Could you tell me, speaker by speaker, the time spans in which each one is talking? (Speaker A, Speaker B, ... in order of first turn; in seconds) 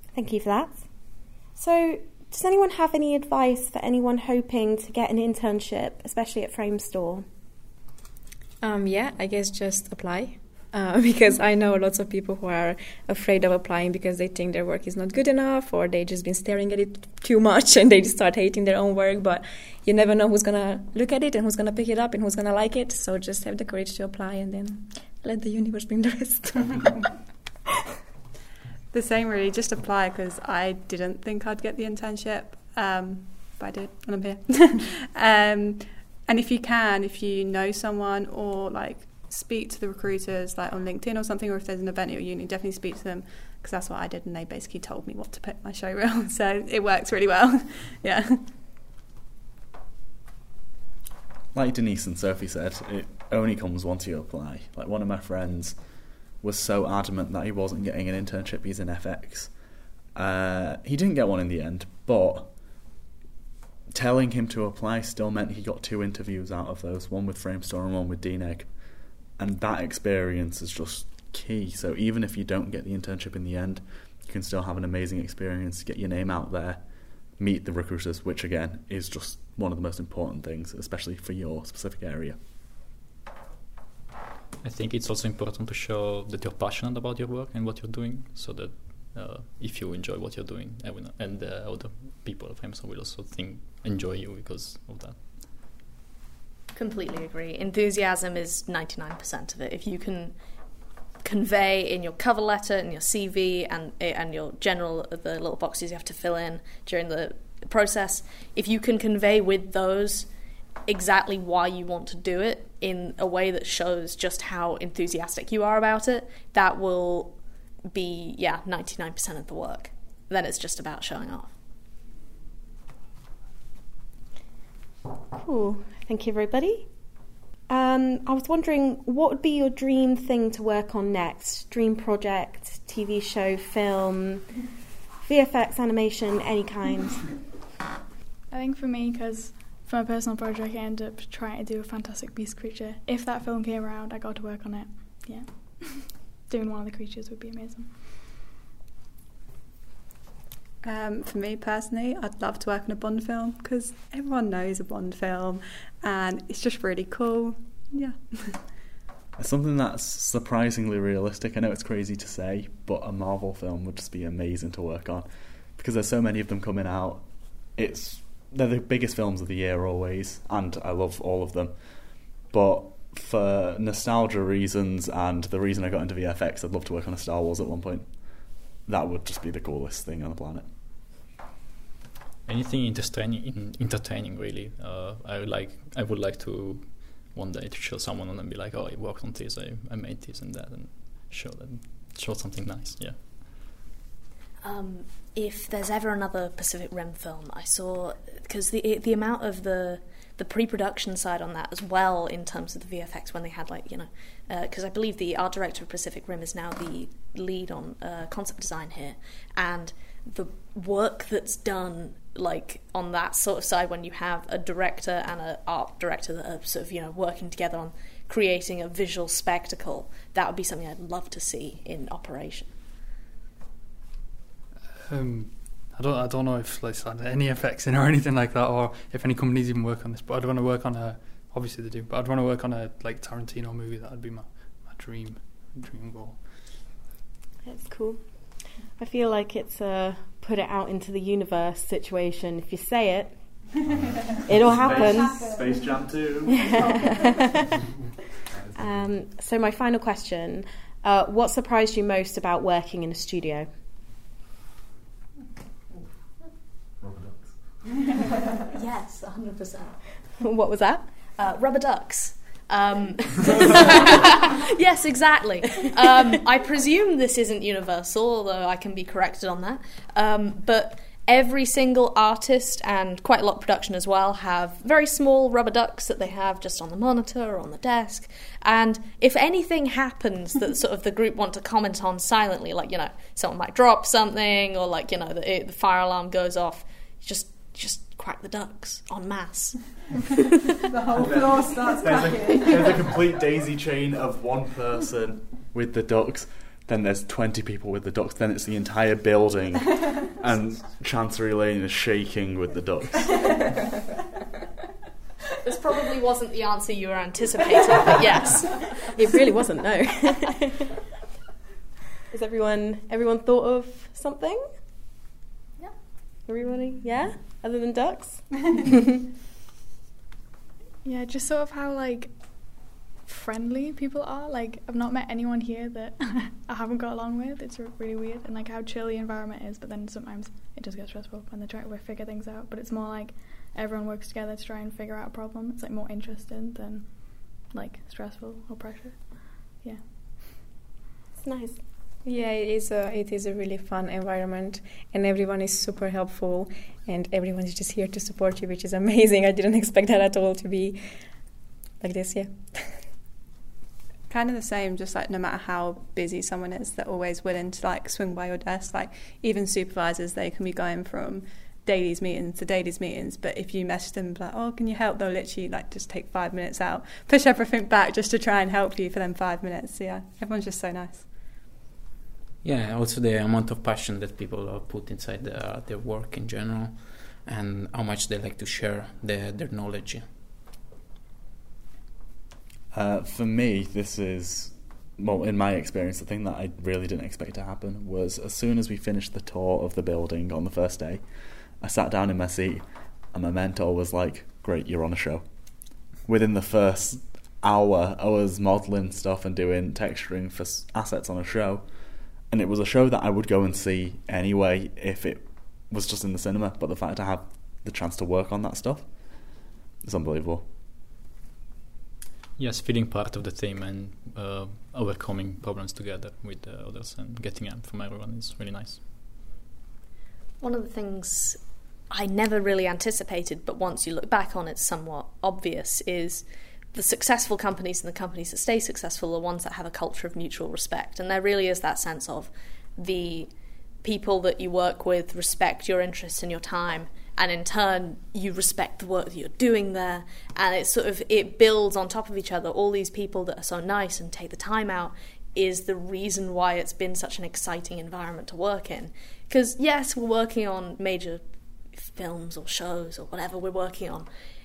Speaker A: 0.1-7.2, 125.3-134.7, 135.2-137.5, 237.6-243.8, 244.4-245.5, 246.4-247.8, 248.7-253.7, 260.4-261.1, 309.1-310.7, 312.3-314.8, 316.4-318.9, 341.3-341.8
Speaker B: 8.6-27.0, 342.2-353.0
Speaker C: 28.9-48.4, 150.8-158.8, 290.9-292.7, 354.3-371.3
Speaker D: 51.5-62.9, 63.9-82.4, 159.4-180.7, 244.5-246.7, 248.5-249.1, 256.9-257.9, 291.1-303.4, 382.9-410.6
Speaker E: 84.6-95.4, 182.4-193.2, 412.6-419.0
Speaker F: 96.7-100.4, 101.2-110.3, 110.8-121.5, 194.6-222.8, 258.7-260.0, 261.4-290.4, 305.6-309.1, 420.6-454.3
Speaker G: 138.5-148.1, 321.0-340.1
Speaker H: 225.1-236.8
Speaker I: 372.6-380.3